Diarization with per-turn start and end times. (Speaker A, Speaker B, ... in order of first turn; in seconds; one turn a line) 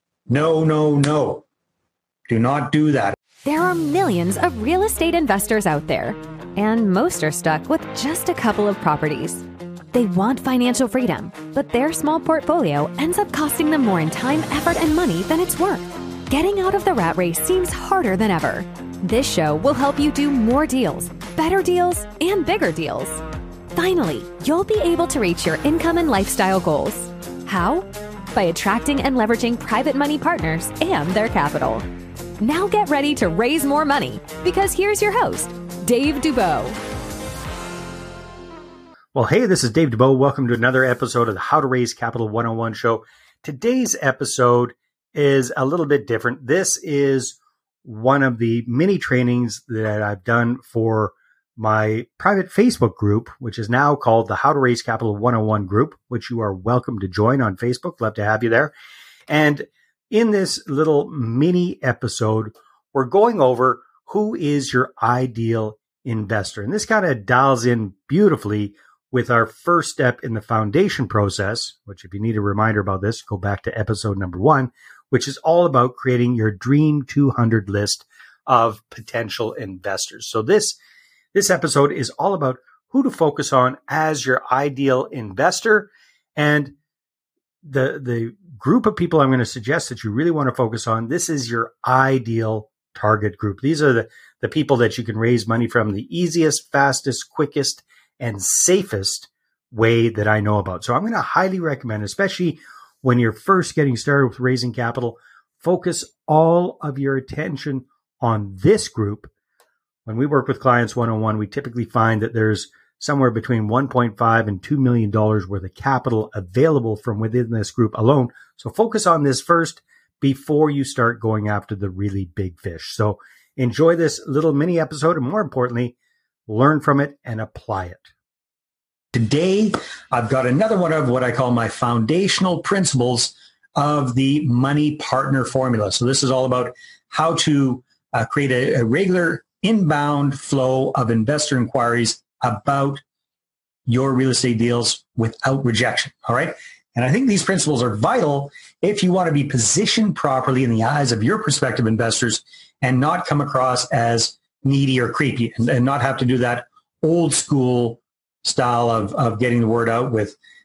Speaker A: 0.3-1.4
Speaker A: 2.3-3.1
Speaker B: 3.4-23.2
Speaker B: 23.7-31.9
Speaker B: 32.4-36.8
Speaker C: 39.1-41.4
Speaker A: 39.4-42.2
Speaker C: 41.9-42.9
Speaker A: 42.9-43.5
Speaker C: 43.5-44.6
Speaker A: 44.0-46.6
Speaker C: 45.4-47.3
Speaker A: 47.9-48.9
Speaker C: 47.9-51.1
Speaker A: 49.4-54.9
Speaker C: 51.7-58.7
Speaker A: 55.8-56.9
Speaker A: 57.4-58.7
Speaker A: 59.3-59.6
Speaker A: 60.2-60.9
Speaker C: 60.4-62.4
Speaker A: 61.5-64.2
Speaker C: 63.0-68.7
Speaker A: 65.0-69.5
Speaker C: 69.3-80.8
Speaker A: 71.5-72.0
Speaker A: 72.5-74.2
Speaker A: 77.9-79.0
Speaker C: 81.4-86.6
Speaker A: 82.6-83.0
Speaker C: 87.7-102.6
Speaker A: 88.3-88.6
Speaker A: 92.5-94.0
Speaker A: 95.0-96.2
Speaker A: 97.7-98.7
Speaker A: 99.2-100.2
Speaker A: 102.4-103.5
Speaker C: 103.2-107.8
Speaker A: 104.4-106.6
Speaker A: 107.7-109.1
Speaker C: 108.4-109.3
Speaker C: 110.1-125.9
Speaker A: 112.3-113.2
Speaker A: 115.5-115.9
Speaker A: 118.2-118.8
Speaker C: 126.5-128.0
Speaker A: 127.2-128.0
Speaker A: 129.1-143.0
Speaker A: 143.9-160.4